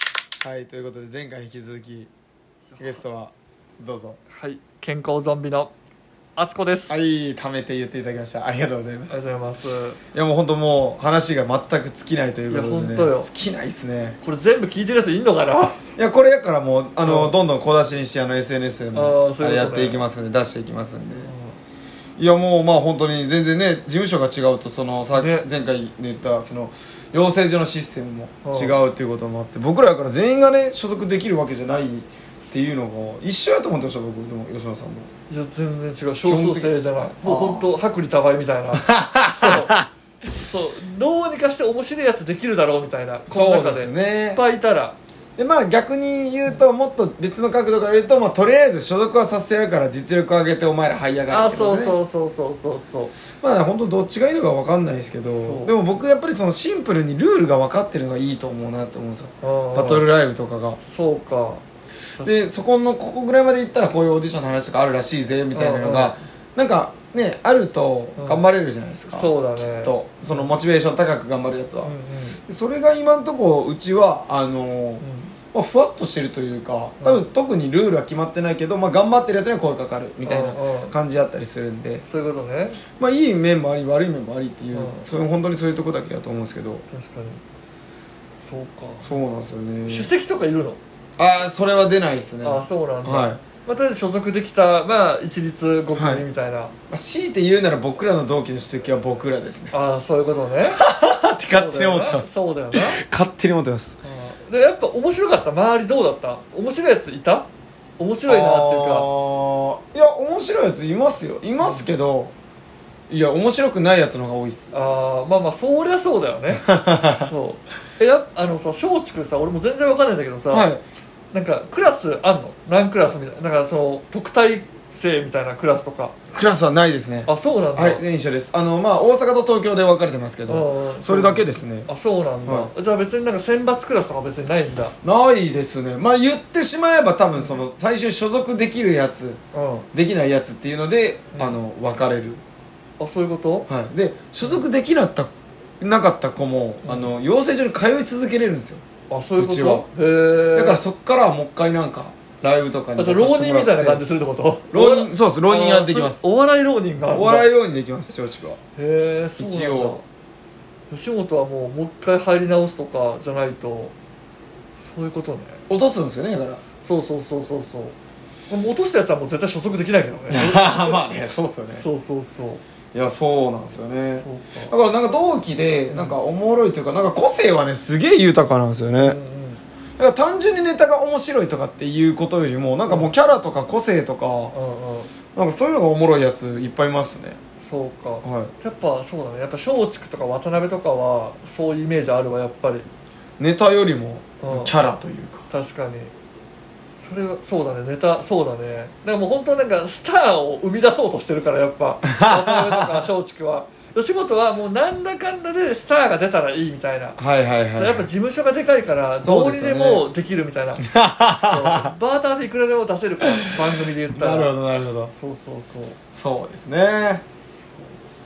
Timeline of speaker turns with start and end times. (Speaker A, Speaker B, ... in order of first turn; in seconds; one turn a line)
Speaker A: 0.4-2.1
Speaker B: 2.7-3.0
Speaker A: 2.8-4.2
Speaker B: 4.3-5.7
Speaker B: 6.4-7.0
Speaker A: 6.9-9.3
Speaker B: 9.1-10.0
Speaker A: 10.1-14.2
Speaker B: 12.5-13.3
Speaker B: 14.2-15.8
Speaker A: 16.0-21.3
Speaker B: 17.0-17.4
Speaker B: 18.9-20.0
Speaker B: 21.2-21.6
Speaker A: 22.2-35.1
Speaker B: 25.1-25.5
Speaker B: 28.4-28.8
Speaker B: 35.3-39.7
Speaker A: 36.2-37.7
Speaker A: 38.8-39.9
Speaker B: 40.3-45.0
Speaker A: 43.3-44.4
Speaker A: 45.4-52.0
Speaker B: 51.3-53.1
Speaker A: 53.3-60.8
Speaker B: 55.3-55.7
Speaker B: 59.4-60.0
Speaker B: 60.8-61.6
Speaker B: 62.2-62.5
Speaker A: 62.2-71.9
Speaker B: 65.5-66.2
Speaker B: 68.2-68.4
Speaker B: 69.1-70.5
Speaker B: 71.8-72.4
Speaker A: 72.5-82.0
Speaker B: 75.0-75.3
Speaker B: 80.2-80.9
Speaker B: 82.0-82.8
Speaker A: 83.0-86.8
Speaker B: 84.7-85.1
Speaker B: 86.9-87.4
Speaker B: 88.4-89.2
Speaker A: 89.0-90.1
Speaker B: 89.9-90.8
Speaker A: 91.2-93.4
Speaker B: 92.4-96.7
Speaker A: 96.0-96.2
Speaker A: 96.9-99.7
Speaker B: 99.7-100.8
Speaker A: 100.6-104.0
Speaker B: 101.5-103.0
Speaker B: 104.0-107.5
Speaker B: 108.0-109.1
Speaker A: 108.3-112.3
Speaker B: 111.6-111.9
Speaker A: 113.1-114.7
Speaker B: 114.7-120.7
Speaker A: 116.5-117.3
Speaker A: 120.5-120.8
Speaker B: 121.3-126.1
Speaker A: 126.3-131.9
Speaker B: 127.3-128.0
Speaker B: 130.5-134.9
Speaker A: 132.4-132.7
Speaker A: 135.0-139.4
Speaker B: 139.5-139.9
Speaker A: 139.9-142.4
Speaker B: 143.0-143.7
Speaker A: 143.7-148.8
Speaker B: 146.8-147.1
Speaker B: 149.1-150.8
Speaker A: 149.4-149.9
Speaker A: 150.5-154.0
Speaker B: 153.0-157.5
Speaker A: 154.7-156.2
Speaker A: 157.1-158.6
Speaker B: 158.8-160.0
Speaker A: 159.4-160.0
Speaker B: 160.9-163.9
Speaker B: 164.8-165.6
Speaker A: 165.7-166.6
Speaker B: 166.8-167.9
Speaker B: 168.5-171.1
Speaker A: 170.3-171.8
Speaker B: 171.7-172.6
Speaker A: 172.9-179.2
Speaker B: 174.2-174.7
Speaker B: 175.9-176.2
Speaker B: 179.0-179.6
Speaker A: 180.0-184.5
Speaker B: 182.8-183.1
Speaker B: 184.5-185.1
Speaker A: 185.3-187.4
Speaker B: 187.6-192.8
Speaker A: 188.2-188.5
Speaker A: 193.4-195.4
Speaker B: 194.4-194.7
Speaker B: 195.5-196.1
Speaker B: 197.0-207.2
Speaker A: 202.0-203.1
Speaker A: 207.2-208.0
Speaker B: 207.7-210.8
Speaker A: 209.2-210.1
Speaker A: 210.8-211.9
Speaker B: 211.5-214.5
Speaker A: 213.2-215.1
Speaker B: 215.1-216.0
Speaker A: 216.1-217.2
Speaker B: 217.7-218.0